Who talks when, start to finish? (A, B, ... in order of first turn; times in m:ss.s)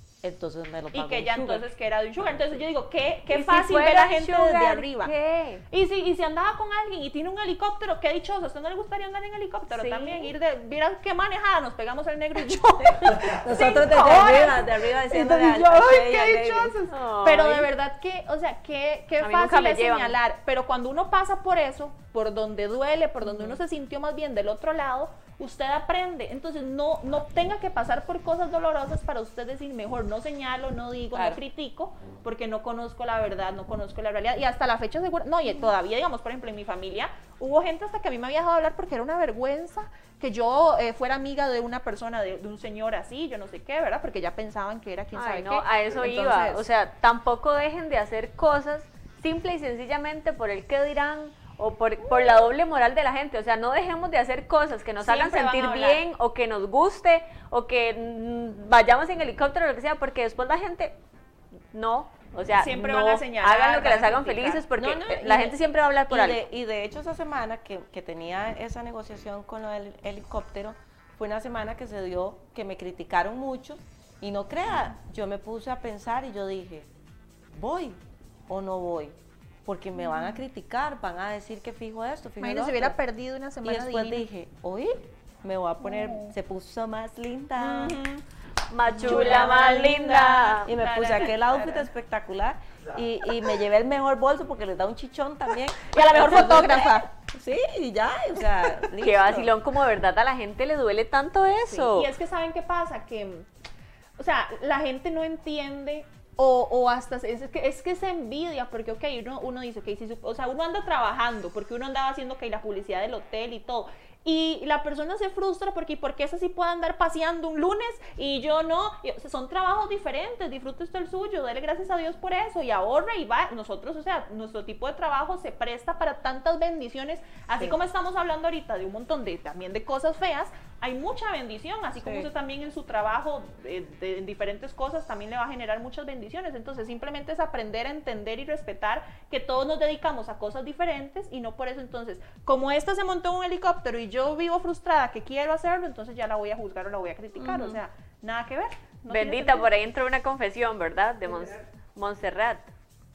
0:00.2-0:01.6 A
0:00.9-0:05.1 B
0:03.3-0:05.6 C
0:05.7-0:46.6 B
0:09.7-0:10.3 C
0:12.8-0:16.8 A
0:16.9-0:17.7 C
0:19.2-0:20.2 C
0:45.2-1:01.0 C
0:55.0-0:56.0 B
1:01.7-1:06.4 C
1:02.5-1:04.6 B
1:04.8-1:05.6 A
1:06.1-1:16.9 A
1:17.5-1:23.0 A
1:20.0-1:20.4 B
1:22.4-1:24.3 B
1:23.6-1:28.0 A
1:25.8-1:26.3 B
1:27.6-1:28.2 B
1:28.7-1:30.8 C
1:28.9-1:31.9 B
1:29.0-1:29.5 A
1:30.7-1:39.5 A
1:35.9-1:37.1 B
1:39.0-1:42.1 C
1:41.7-1:43.5 B
1:44.2-2:29.7 B
2:12.0-2:12.3 A
2:27.4-2:27.8 A
2:29.1-2:32.7 C